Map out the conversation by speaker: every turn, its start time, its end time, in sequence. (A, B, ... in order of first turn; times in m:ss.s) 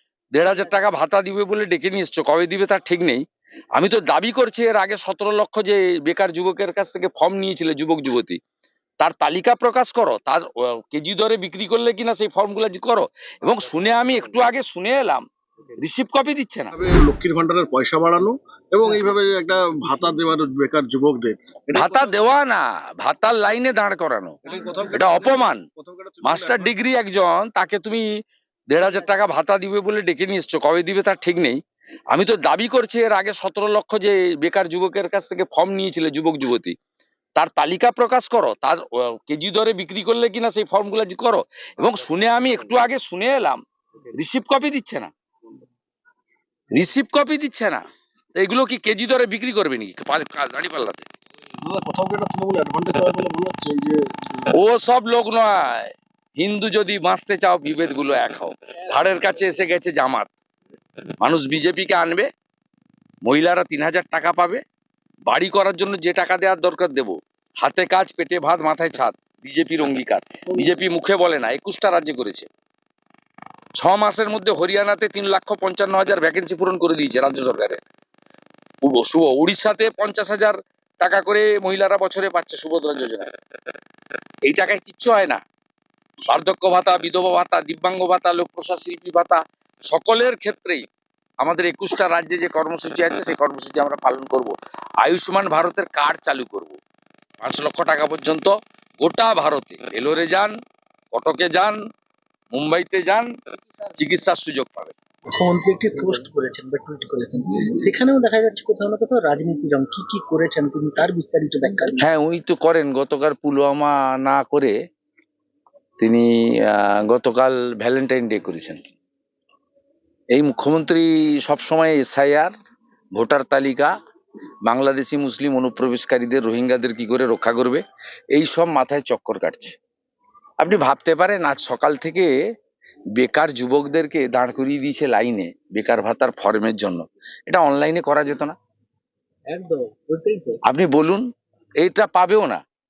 0:00.3-0:03.2 A
0:03.7-0:08.4 A
0:09.0-0:15.2 A
0:15.8-0:16.7 A
0:16.7-0:22.1 B
0:21.7-0:24.4 A
0:24.4-0:26.7 B
0:24.9-0:25.6 A
0:26.2-0:28.0 A
0:28.7-0:36.7 A
0:37.3-0:43.6 A
0:44.1-0:45.1 A
0:46.7-0:47.8 A
0:48.4-0:51.1 A
0:51.6-0:54.0 B
0:54.5-1:00.3 A
1:01.2-1:02.3 A
1:03.2-1:04.6 A
1:05.3-1:12.5 A
1:13.8-1:17.8 A
1:18.8-1:23.3 A
1:24.4-1:25.4 A
1:26.3-1:30.8 A
1:31.4-1:36.8 A
1:37.4-1:40.5 A
1:41.1-1:41.8 A
1:42.5-1:43.3 A
1:44.0-1:44.9 A
1:45.4-1:52.0 C
1:52.0-1:54.7 A
1:56.0-1:58.9 A
2:00.3-2:02.5 A
2:03.1-2:03.9 A
2:04.6-2:07.8 A
2:08.3-2:09.7 A
2:10.6-2:12.3 A
2:13.2-2:18.6 A
2:19.5-2:20.6 C
2:20.6-2:21.2 A
2:21.8-2:22.6 A